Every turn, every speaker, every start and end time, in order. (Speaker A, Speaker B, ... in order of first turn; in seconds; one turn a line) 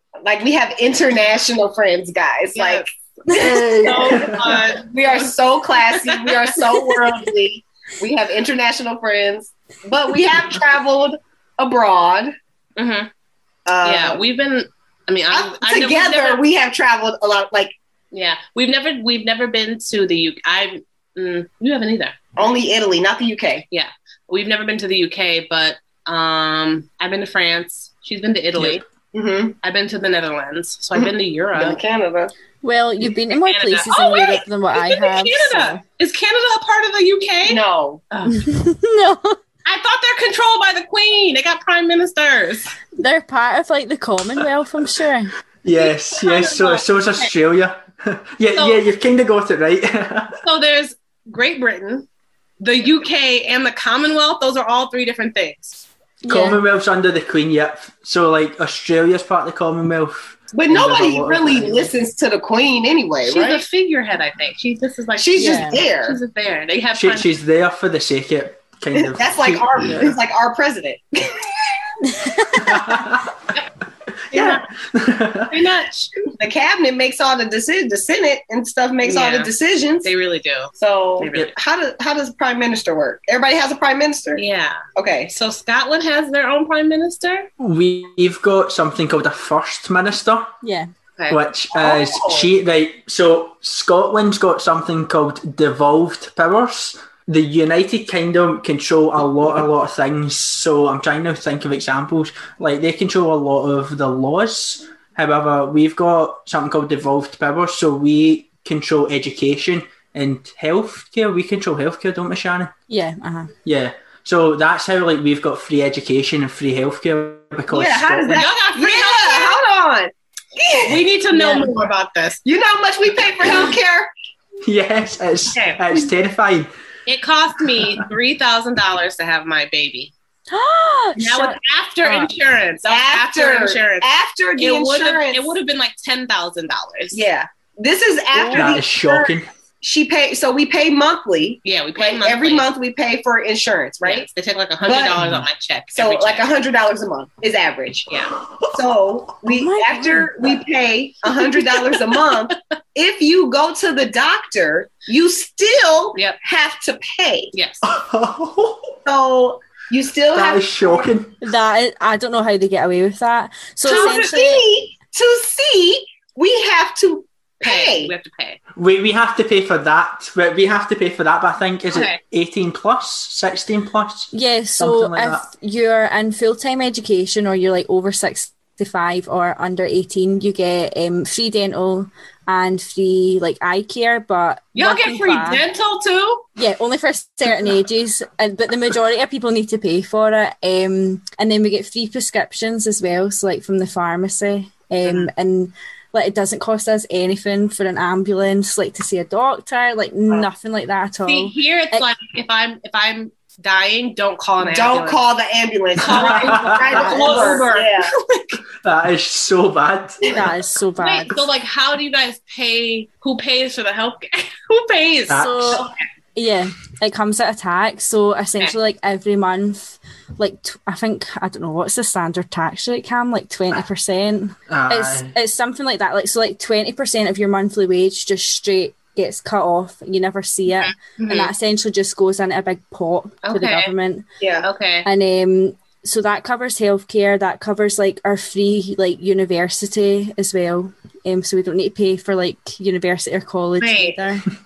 Speaker A: 0.2-12.3
Speaker B: 2.5-2.9
Speaker C: 3.3-4.6
Speaker B: 3.8-7.0
Speaker B: 12.8-13.1
Speaker A: 13.7-14.2
Speaker B: 13.8-16.4
Speaker A: 15.3-17.7
Speaker B: 18.1-22.5
Speaker A: 22.4-23.6
Speaker B: 23.7-28.8
Speaker C: 28.6-28.8
Speaker A: 29.1-29.5
Speaker B: 29.6-31.8
Speaker A: 30.9-32.3
Speaker D: 32.6-35.8
Speaker B: 33.4-38.5
Speaker A: 37.5-38.0
Speaker D: 38.2-39.4
Speaker B: 39.6-42.7
Speaker D: 43.0-45.3
Speaker C: 45.6-50.4
Speaker B: 45.7-47.3
Speaker B: 48.5-48.8
Speaker B: 50.4-52.0
Speaker B: 52.6-55.8
Speaker D: 56.2-56.6
Speaker C: 56.3-61.9
Speaker A: 60.5-63.6
Speaker B: 63.2-67.3
Speaker A: 65.2-66.2
Speaker D: 65.4-65.8
Speaker C: 66.9-70.2
Speaker A: 68.9-72.1
Speaker D: 72.0-72.7
Speaker C: 72.6-73.3
Speaker C: 74.3-75.5
Speaker B: 74.3-74.6
Speaker B: 75.5-76.3
Speaker A: 76.4-80.1
Speaker B: 79.0-79.5
Speaker B: 80.0-81.5
Speaker A: 80.8-84.4
Speaker B: 84.3-87.5
Speaker A: 85.0-85.3
Speaker C: 87.6-90.5
Speaker D: 90.6-90.9
Speaker C: 91.3-112.7
Speaker A: 91.7-92.5
Speaker D: 112.9-113.5
Speaker C: 113.6-118.5
Speaker A: 117.7-121.0
Speaker B: 118.3-119.7
Speaker B: 120.8-122.4
Speaker D: 121.3-121.7
Speaker A: 122.4-124.1
Speaker C: 124.7-126.7
Speaker B: 125.5-125.8
Speaker B: 127.0-130.1
Speaker D: 130.5-132.3
Speaker B: 131.2-137.2
Speaker A: 132.9-135.5
Speaker A: 137.1-144.3
Speaker D: 138.3-138.7
Speaker C: 138.5-139.5
Speaker B: 141.6-142.7
Speaker B: 144.0-146.5
Speaker A: 144.8-145.2
Speaker C: 145.2-145.4
Speaker A: 145.9-157.5
Speaker D: 149.4-150.4
Speaker B: 151.4-152.3
Speaker B: 157.5-157.8
Speaker C: 157.8-158.9
Speaker A: 159.0-161.1
Speaker C: 160.3-161.3
Speaker D: 161.4-164.6
Speaker B: 163.8-164.2
Speaker A: 163.8-168.1
Speaker B: 167.6-168.6
Speaker C: 168.8-175.5
Speaker B: 171.9-172.2
Speaker D: 174.3-185.6
Speaker B: 184.7-186.4
Speaker D: 186.6-202.1
Speaker B: 195.0-195.3
Speaker B: 201.3-205.2
Speaker A: 204.6-208.1
Speaker B: 206.0-208.6
Speaker C: 206.1-207.1
Speaker D: 206.9-207.6
Speaker C: 208.8-210.4
Speaker D: 210.3-211.5
Speaker B: 211.0-215.9
Speaker C: 215.3-215.9
Speaker D: 215.3-234.2
Speaker C: 224.7-225.3
Speaker B: 230.7-231.5
Speaker B: 233.4-233.9
Speaker A: 234.4-234.7
Speaker B: 234.6-235.1
Speaker D: 235.0-244.4
Speaker B: 243.8-244.2